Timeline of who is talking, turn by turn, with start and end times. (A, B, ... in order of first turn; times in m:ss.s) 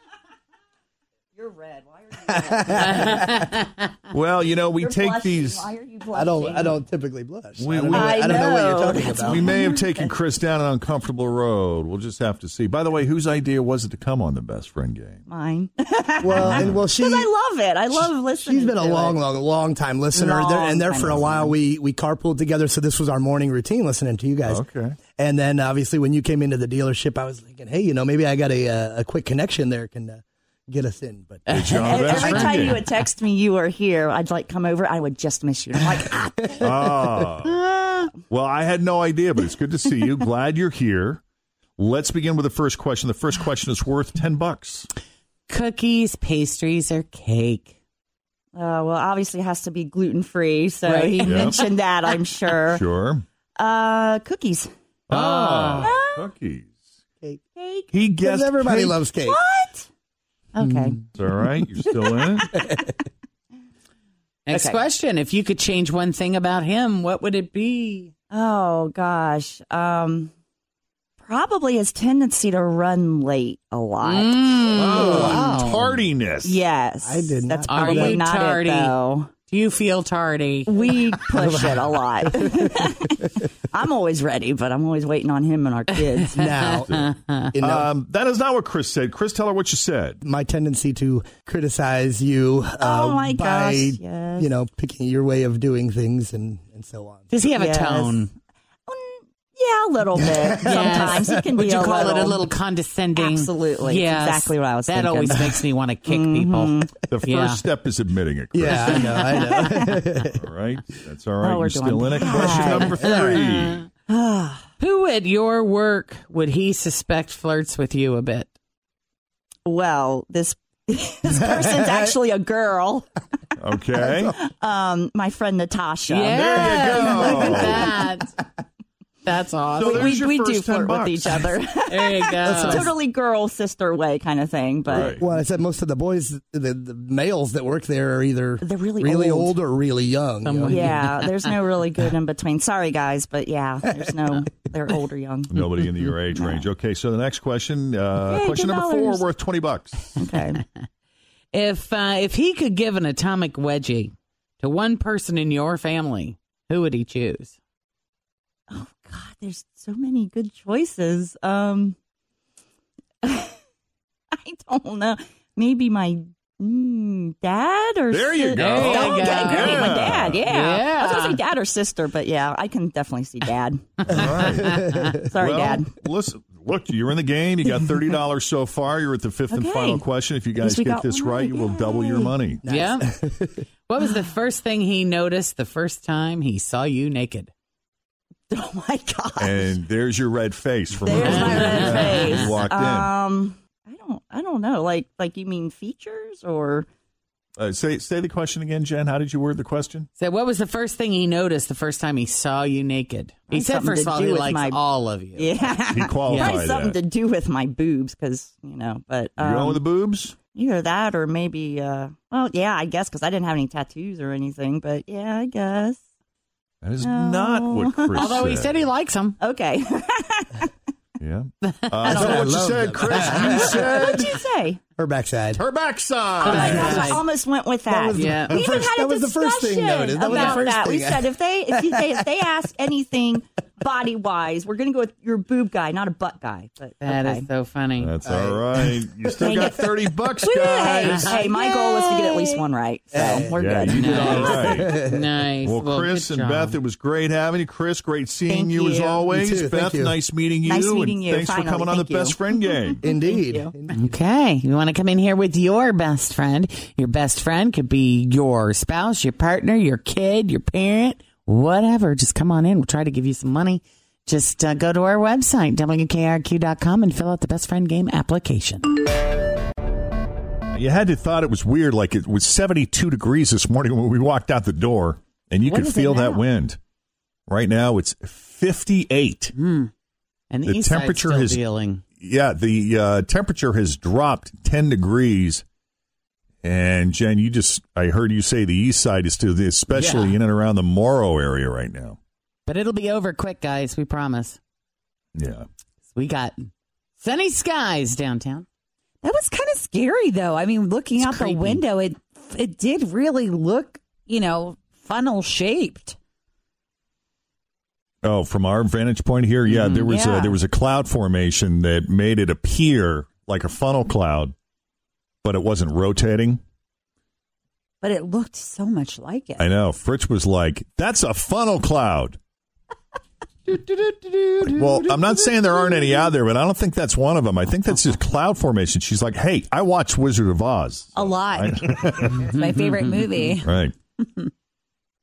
0:01.3-0:03.4 A
0:02.4-0:03.3 B
0:02.8-0:03.6 C
0:04.1-0:05.7 D
0:04.7-0:06.8 A
0:06.1-0:09.4 B
0:07.6-0:08.5 D
0:07.9-0:10.1 A
0:09.2-0:15.2 D
0:15.3-0:19.2 A
0:16.2-0:17.3 B
0:16.4-0:16.8 D
0:17.9-0:24.6 B
0:20.1-0:21.5 A
0:24.4-0:25.0 D
0:25.1-0:31.7 B
0:31.5-0:32.8 C
0:31.5-0:32.8 D
0:31.8-0:36.6 A
0:36.4-0:37.3 B
0:36.6-0:37.5 D
0:37.4-0:38.1 C
0:38.3-0:41.2 D
0:41.8-0:44.9 D
0:45.5-0:47.7 C
0:48.5-0:52.8 A
0:50.8-0:51.7 C
0:51.2-0:51.6 D
0:52.7-0:53.2 D
0:53.6-0:54.7 A
0:55.1-0:56.7 D
0:55.1-0:55.9 C
0:55.8-0:56.3 A
0:57.6-0:57.9 A
0:57.9-0:59.0 D
0:58.2-0:59.4 B
0:59.2-0:59.9 A
1:00.5-1:01.0 C
1:00.6-1:01.0 A
1:01.1-1:02.5 D
1:01.9-1:02.7 A
1:04.4-1:08.1 C
1:04.5-1:04.8 A
1:08.3-1:10.3 A
1:11.2-1:15.5 A
1:14.0-1:16.0 C
1:14.7-1:16.6 D
1:16.4-1:19.3 A
1:17.0-1:18.2 B
1:17.7-1:20.8 C
1:20.7-1:26.4 A
1:21.3-1:22.8 B
1:26.2-1:27.5 C
1:26.4-1:27.9 B
1:27.6-1:30.2 D
1:30.2-1:37.3 B
1:32.8-1:34.5 A
1:37.3-1:38.3 C
1:37.5-1:38.2 A
1:38.9-1:42.4 A
1:40.6-1:41.5 B
1:40.6-1:47.6 C
1:43.2-1:46.9 A
1:47.1-1:49.1 D
1:48.5-1:50.4 B
1:48.9-1:50.0 A
1:50.4-1:53.8 D
1:51.4-1:52.9 A
1:52.2-1:53.7 C
1:54.1-1:54.7 A
1:54.8-1:58.5 C
1:59.6-2:03.1 A
2:03.6-2:04.3 D
2:04.0-2:07.9 A
2:06.1-2:08.4 C
2:06.3-2:07.9 D
2:09.2-2:10.1 C
2:09.8-2:11.6 D
2:09.8-2:15.2 A
2:11.9-2:12.9 C
2:12.4-2:12.9 B
2:14.9-2:15.2 D
2:14.9-2:21.0 B
2:18.6-2:19.6 A
2:20.4-2:21.4 C
2:20.7-2:25.8 A
2:25.5-2:30.1 D
2:26.3-2:26.7 A
2:28.2-2:29.3 A
2:30.2-2:30.6 A
2:31.5-2:37.6 C
2:38.7-2:42.0 A
2:43.2-2:43.5 A
2:44.4-2:53.9 A
2:48.1-2:50.4 D
2:48.5-2:51.4 C
2:54.0-2:54.8 D
2:54.1-2:55.1 C
2:54.2-2:55.1 B
2:55.3-2:55.9 A
2:55.4-3:02.6 D
2:59.5-3:00.0 A
3:00.6-3:02.3 A
3:02.6-3:03.6 B
3:02.7-3:03.1 C
3:03.9-3:07.5 C
3:08.5-3:09.8 A
3:09.4-3:13.1 D
3:11.0-3:16.8 A
3:11.1-3:12.5 C
3:17.6-3:20.1 D
3:20.2-3:26.6 C
3:23.5-3:24.8 A
3:25.3-3:29.8 A
3:25.9-3:27.0 D
3:29.4-3:30.4 D
3:30.5-3:36.0 A
3:36.8-3:38.9 D
3:37.0-3:38.3 A
3:38.1-3:39.4 C
3:39.4-3:40.7 A
3:41.2-3:44.3 D
3:41.6-3:42.4 C
3:42.0-3:44.3 B
3:42.1-3:42.4 A
3:43.2-3:44.8 A
3:45.0-3:45.6 B
3:45.5-3:47.2 D
3:46.4-3:47.2 C
3:46.4-3:57.5 A
3:46.6-3:47.0 B
3:47.8-3:51.9 B
3:48.1-3:48.6 C
3:50.2-3:50.6 C
3:57.0-3:58.1 C
3:58.0-4:01.4 D
3:58.2-3:59.0 B
3:59.3-4:04.6 A
4:00.9-4:02.5 C
4:03.1-4:05.2 B
4:03.5-4:04.9 D
4:03.9-4:06.8 C
4:05.6-4:13.0 D
4:08.5-4:09.3 A
4:09.3-4:10.2 B
4:10.6-4:13.7 A
4:13.0-4:14.1 B
4:13.9-4:28.9 C
4:30.7-4:36.8 D
4:35.6-4:36.4 C
4:37.5-4:39.5 D
4:39.6-4:39.9 C
4:40.5-4:42.0 C
4:40.6-4:41.6 D
4:42.2-4:45.6 D
4:46.6-4:52.2 D
4:52.6-4:54.6 C
4:55.3-4:55.6 D
4:56.1-4:58.6 C
4:59.2-5:06.2 E
5:01.2-5:01.8 C
5:08.2-5:14.5 D
5:09.7-5:10.1 C
5:10.1-5:10.6 E
5:15.4-5:16.6 D
5:18.0-5:19.7 E
5:19.6-5:22.4 D
5:24.7-5:32.4 D
5:31.1-5:34.5 E
5:32.6-5:33.6 C
5:33.6-5:33.9 D